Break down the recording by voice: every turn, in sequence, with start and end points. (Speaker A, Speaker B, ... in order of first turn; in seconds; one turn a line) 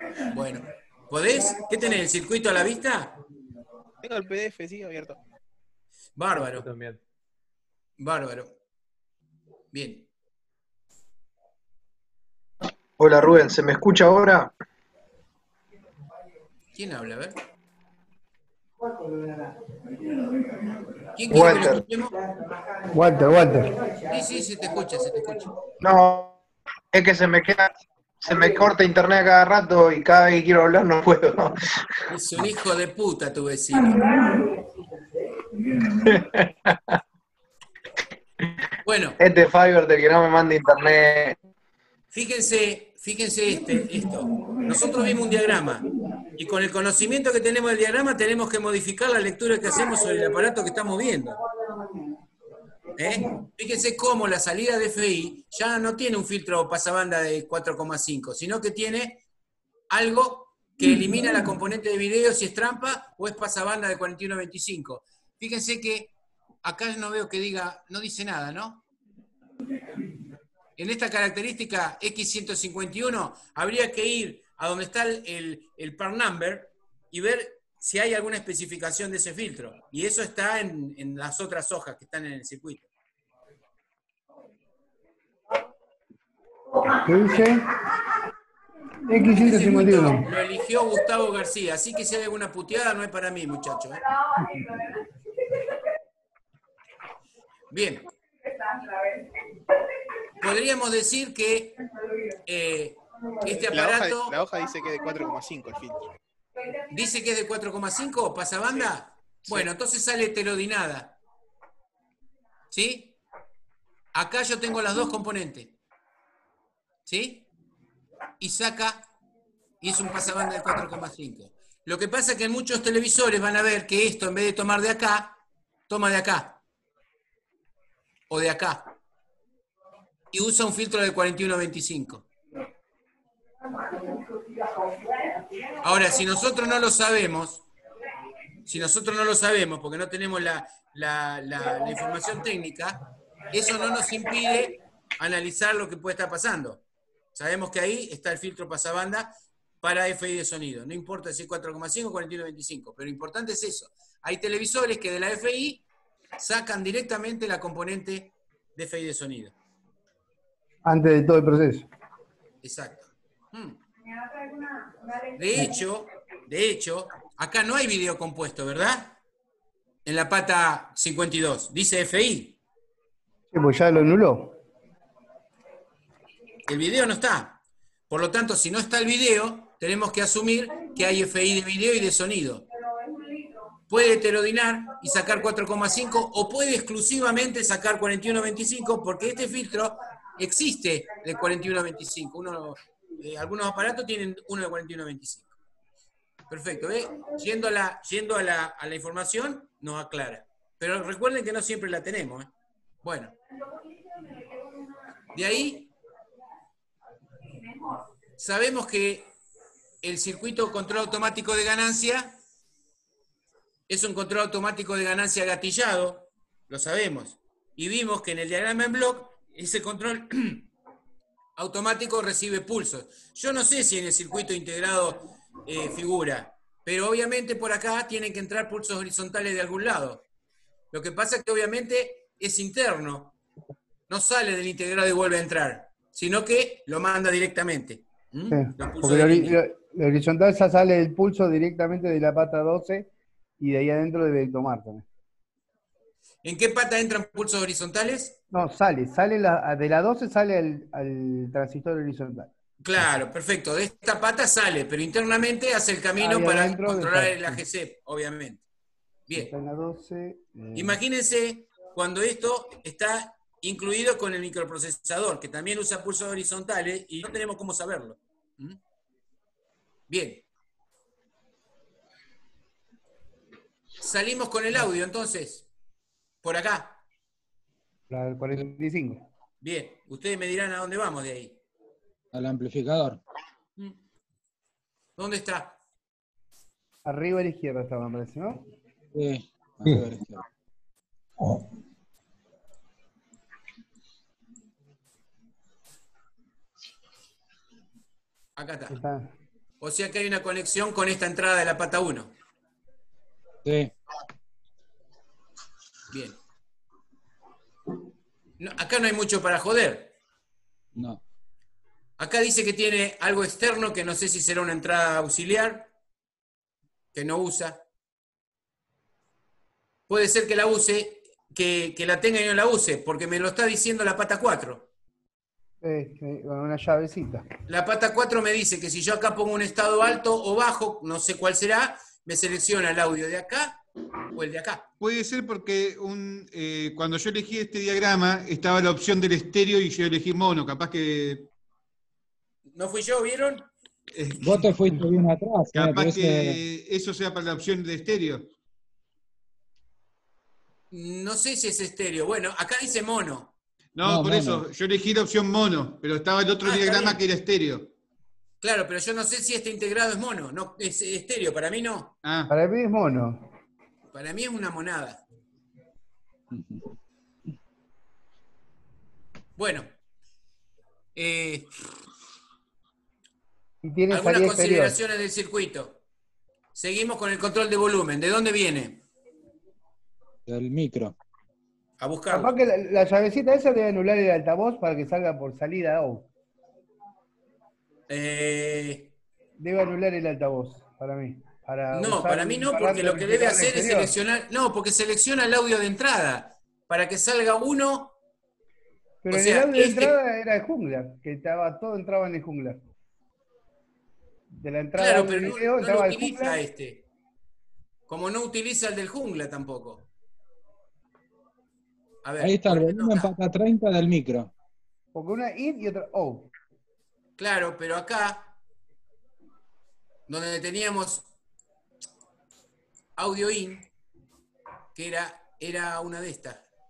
Speaker A: 0.3-3.2
Speaker B: 4.0-5.2
Speaker A: 6.2-6.7
Speaker B: 6.4-7.0
Speaker A: 8.0-8.5
Speaker A: 9.7-10.1
Speaker C: 13.0-14.5
Speaker A: 16.7-17.4
Speaker A: 21.1-22.1
Speaker C: 21.3-21.8
Speaker D: 22.9-23.9
Speaker A: 24.1-25.5
Speaker C: 25.8-26.4
Speaker C: 26.9-31.8
Speaker A: 32.1-34.1
Speaker C: 35.8-36.9
Speaker A: 38.8-39.2
Speaker C: 39.2-41.4
Speaker A: 42.1-45.9
Speaker A: 46.4-51.4
Speaker A: 53.0-59.2
Speaker A: 59.9-66.1
Speaker A: 66.6-68.8
Speaker A: 70.8-82.8
Speaker D: 86.8-87.6
Speaker D: 89.0-90.2
Speaker A: 89.3-94.0
Speaker A: 97.7-98.1
Speaker A: 100.4-101.8
Speaker A: 102.5-104.3
Speaker B: 103.7-106.1
Speaker A: 106.9-111.2
Speaker A: 112.7-113.2
Speaker A: 114.1-115.7
Speaker A: 117.0-117.5
Speaker A: 118.4-119.1
Speaker A: 119.8-125.4
Speaker A: 125.9-126.6
Speaker A: 128.3-128.9
Speaker A: 130.3-132.2
Speaker A: 135.8-137.7
Speaker A: 138.7-143.0
Speaker A: 143.5-146.8
Speaker A: 147.3-155.8
Speaker A: 156.4-159.5
Speaker D: 160.8-161.9
Speaker A: 162.6-163.8
Speaker A: 165.3-169.1
Speaker A: 170.0-172.6
Speaker D: 173.5-174.5
Speaker A: 176.7-177.6
Speaker A: 178.1-182.7
Speaker A: 183.9-195.5
Speaker A: 196.5-202.5
Speaker A: 203.0-203.3
Speaker A: 205.3-205.9
Speaker A: 208.4-209.3
Speaker A: 210.0-212.3
Speaker A: 213.9-220.7
Speaker A: 221.6-230.2
Speaker A: 230.9-233.3
Speaker A: 234.1-239.6
Speaker D: 238.5-245.0
Speaker A: 246.4-248.4
Speaker D: 248.5-252.5
Speaker A: 252.8-258.6
Speaker D: 256.2-257.6
Speaker D: 259.3-261.0
Speaker A: 260.7-268.8
Speaker A: 270.1-270.4
Speaker A: 274.0-275.7
Speaker A: 276.4-277.0
Speaker D: 278.1-279.2
Speaker A: 279.6-281.6
Speaker E: 282.3-283.2
Speaker A: 285.2-285.8
Speaker D: 287.0-288.6
Speaker E: 289.1-290.4
Speaker A: 298.6-299.0
Speaker D: 298.9-299.3
Speaker A: 299.8-302.3
Speaker E: 303.6-303.9
Speaker A: 306.1-306.4
Speaker A: 308.6-310.1
Speaker E: 310.9-311.2
Speaker A: 312.2-315.9
Speaker A: 317.1-317.8
Speaker A: 320.1-324.9
Speaker D: 325.8-327.4
Speaker A: 327.7-333.8
Speaker A: 334.3-334.9
Speaker F: 335.0-341.5
Speaker A: 342.7-343.7
Speaker F: 344.1-345.0
Speaker E: 344.4-346.6
Speaker F: 345.7-348.5
Speaker A: 350.9-353.5
Speaker F: 353.9-357.9
Speaker E: 354.0-354.6
Speaker A: 356.6-357.2
Speaker A: 358.6-362.1
Speaker F: 362.2-362.5
Speaker D: 362.5-363.4
Speaker A: 364.1-365.2
Speaker E: 366.5-366.8
Speaker A: 369.6-369.9
Speaker A: 371.1-371.7
Speaker D: 373.8-374.9
Speaker A: 374.1-376.0
Speaker A: 376.7-379.0
Speaker E: 380.4-381.1
Speaker A: 382.0-382.5
Speaker D: 382.3-386.3
Speaker A: 388.1-389.1
Speaker D: 389.6-394.1
Speaker A: 391.9-398.1
Speaker D: 399.2-402.8
Speaker A: 399.3-400.2
Speaker D: 404.5-406.6
Speaker A: 404.9-407.0
Speaker A: 408.1-410.1
Speaker A: 412.2-413.3
Speaker E: 412.4-414.5
Speaker D: 415.1-416.5
Speaker A: 417.4-418.5
Speaker A: 420.3-421.2
Speaker A: 423.1-423.9
Speaker A: 424.9-426.6